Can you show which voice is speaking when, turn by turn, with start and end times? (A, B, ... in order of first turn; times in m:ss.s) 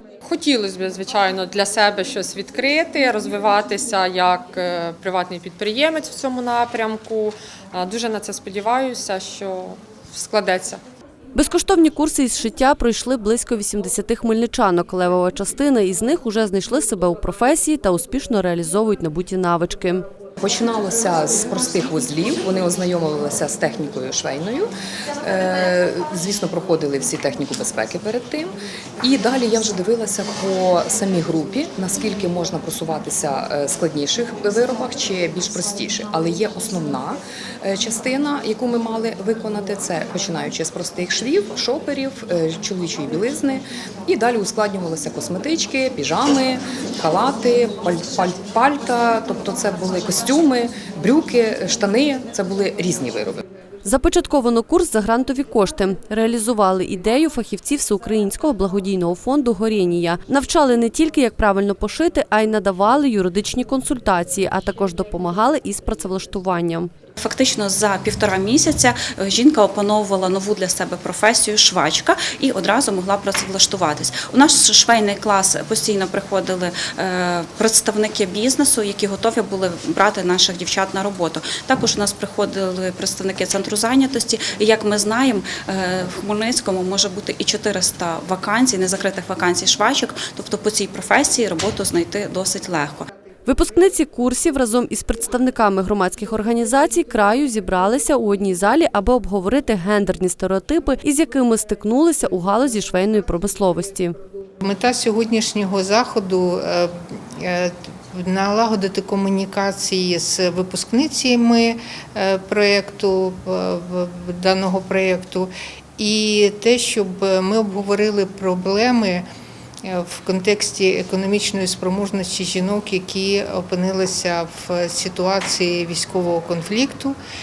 0:00.2-0:10.8 A
0:11.4-0:20.1 B
0:20.4-0:24.7 C
0:25.2-0:53.4 C
0:53.8-1:06.9 B
1:07.2-1:33.1 D
1:33.5-1:44.2 B
1:44.6-1:59.3 E
1:59.8-2:07.2 E